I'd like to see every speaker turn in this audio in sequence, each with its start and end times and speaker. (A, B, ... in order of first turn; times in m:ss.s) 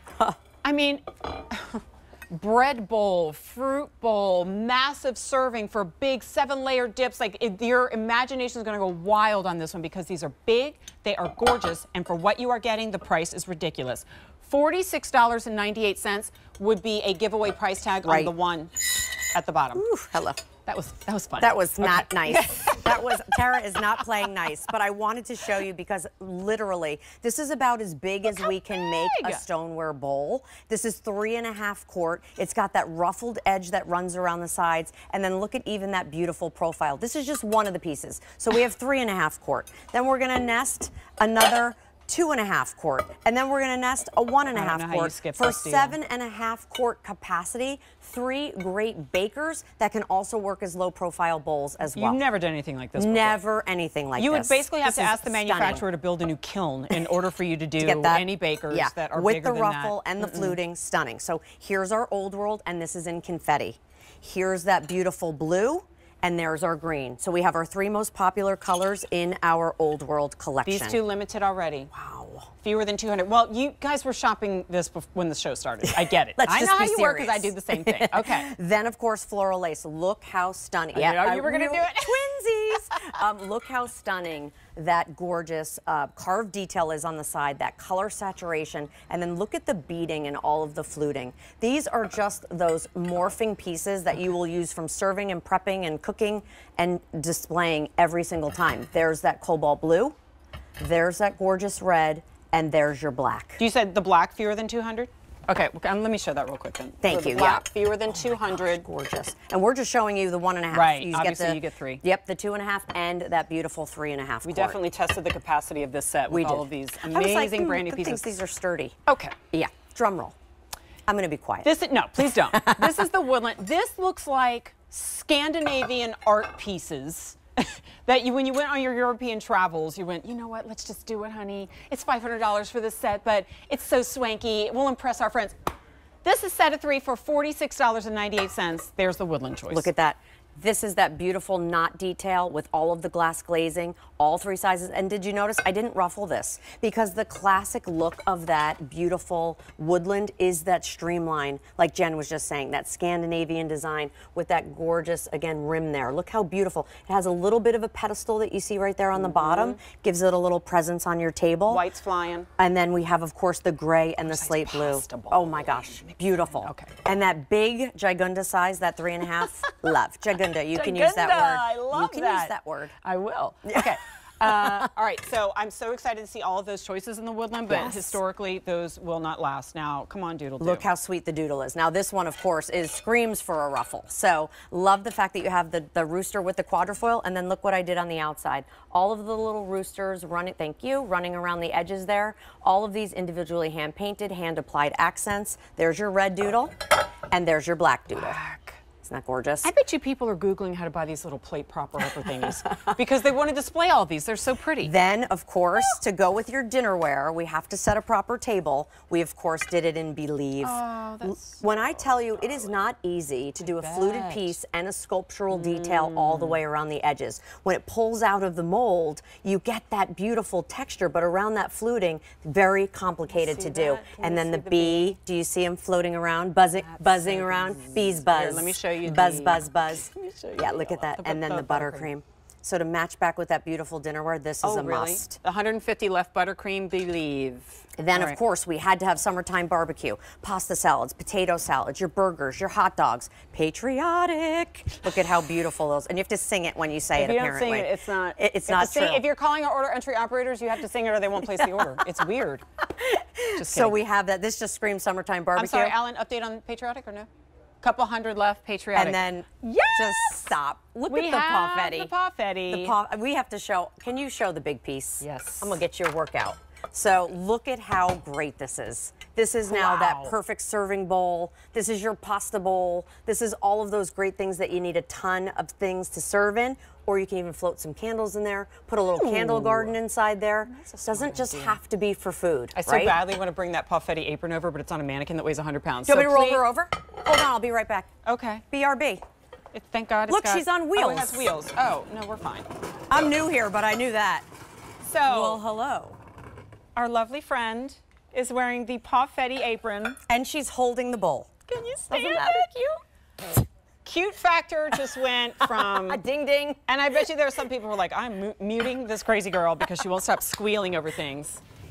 0:00.6-0:19.8 A
0:18.0-0:18.3 B
0:19.7-0:20.4 B
0:20.6-0:23.0 A
0:21.4-0:52.2 B
0:28.3-0:29.4 A
0:44.5-0:46.0 A
0:51.8-0:53.4 A
0:53.0-0:55.8 B
0:54.2-1:00.6 A
0:57.8-1:11.0 B
1:10.6-1:11.9 A
1:11.9-1:12.5 B
1:12.5-1:18.5 A
1:15.8-1:40.1 B
1:20.9-1:23.1 A
1:40.8-1:43.6 B
1:43.6-1:48.8 A
1:47.0-1:54.8 B
1:50.7-1:52.0 A
1:54.4-1:58.4 A
1:56.3-1:58.9 B
1:59.0-1:59.4 A
1:59.5-2:00.3 B
2:01.1-2:03.0 B
2:01.6-2:15.5 A
2:16.2-2:19.9 A
2:19.7-2:41.8 B
2:39.2-2:39.8 A
2:41.7-2:42.5 A
2:42.6-2:52.9 B
2:44.2-2:46.0 A
2:46.6-2:46.9 A
2:50.7-3:00.8 A
2:53.6-2:54.9 B
2:57.7-2:58.2 B
3:00.6-3:16.8 B
3:17.3-3:18.4 B
3:18.1-3:18.8 A
3:19.0-3:19.7 B
3:19.6-3:24.9 A
3:24.8-3:55.4 B
3:30.6-3:32.7 A
3:33.6-3:34.6 A
3:35.5-3:36.6 A
3:43.3-3:45.2 A
3:46.8-3:52.1 A
3:54.6-3:58.4 A
3:58.0-4:09.2 B
4:07.2-4:12.6 A
4:13.0-4:16.0 B
4:13.6-4:14.0 A
4:15.6-4:17.3 A
4:17.8-4:20.4 A
4:18.9-4:22.1 B
4:21.1-4:22.9 A
4:22.7-4:43.2 B
4:25.2-4:25.8 A
4:29.6-4:30.4 A
4:39.1-4:40.0 A
4:40.7-4:41.8 A
4:42.7-4:46.6 A
4:46.1-4:48.1 B
4:48.2-4:48.6 A
4:48.7-4:49.2 B
4:49.7-4:52.7 A
4:50.3-4:51.5 B
4:53.1-4:54.4 B
4:55.0-4:55.6 A
4:55.3-4:56.2 B
4:57.0-5:00.2 A
5:00.3-5:01.5 B
5:01.7-5:02.9 A
5:02.1-5:02.9 B
5:04.0-5:06.2 A
5:05.6-5:06.8 B
5:06.9-5:11.6 A